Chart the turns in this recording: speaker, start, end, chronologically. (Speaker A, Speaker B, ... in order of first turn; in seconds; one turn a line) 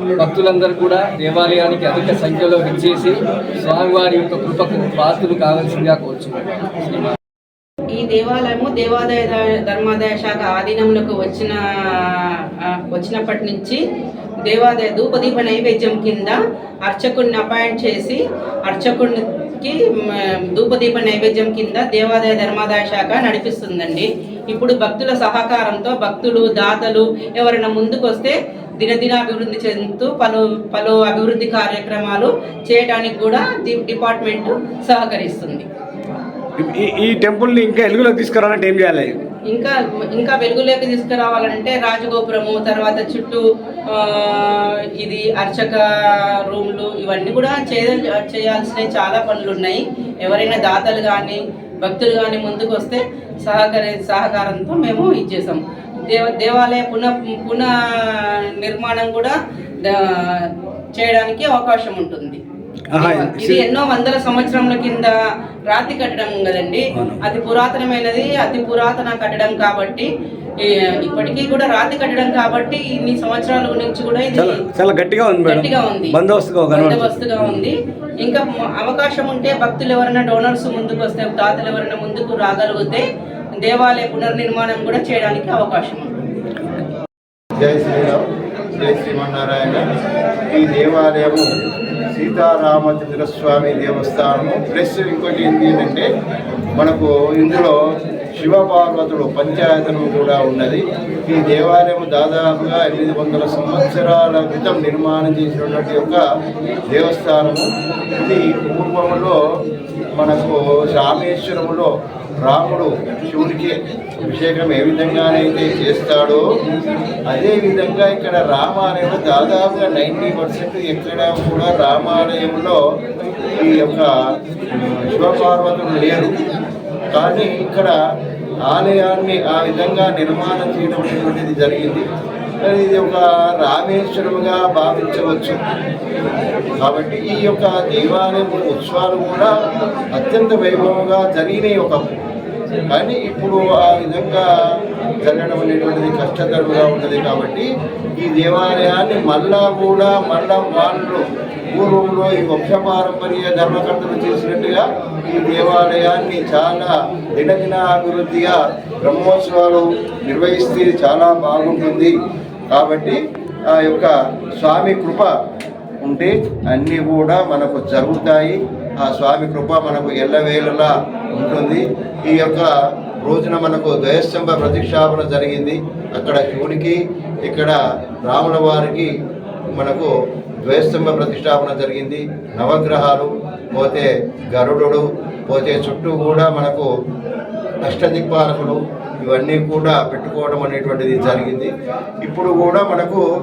Speaker A: 0.2-7.0
Speaker B: 7.9-13.8
Speaker B: 14.4-35.7
Speaker C: 36.6-39.1
Speaker B: 39.5-62.4
Speaker C: 62.9-63.7
Speaker B: 63.0-65.2
Speaker B: 65.7-70.1
Speaker C: 66.9-67.2
Speaker B: 70.6-74.6
Speaker C: 74.3-77.6
Speaker B: 75.5-76.2
Speaker B: 76.7-83.0
Speaker B: 83.6-86.2
Speaker D: 87.6-88.2
Speaker D: 88.8-89.8
Speaker D: 90.5-91.5
Speaker D: 92.1-96.1
Speaker D: 96.8-97.8
Speaker D: 98.4-106.2
Speaker D: 106.9-109.4
Speaker D: 110.2-111.9
Speaker D: 112.4-116.4
Speaker D: 117.3-122.8
Speaker D: 123.6-124.1
Speaker D: 124.7-126.3
Speaker D: 127.1-127.9
Speaker D: 128.7-132.1
Speaker D: 132.6-135.6
Speaker D: 136.8-139.5
Speaker D: 140.1-142.0
Speaker D: 142.9-144.4
Speaker D: 145.2-147.7
Speaker D: 148.2-151.2
Speaker D: 151.8-162.1
Speaker D: 162.7-163.2
Speaker D: 163.7-165.3
Speaker D: 166.0-172.7
Speaker D: 173.2-179.1
Speaker D: 179.7-180.1
Speaker D: 180.6-186.9
Speaker D: 187.8-191.7
Speaker D: 192.2-193.2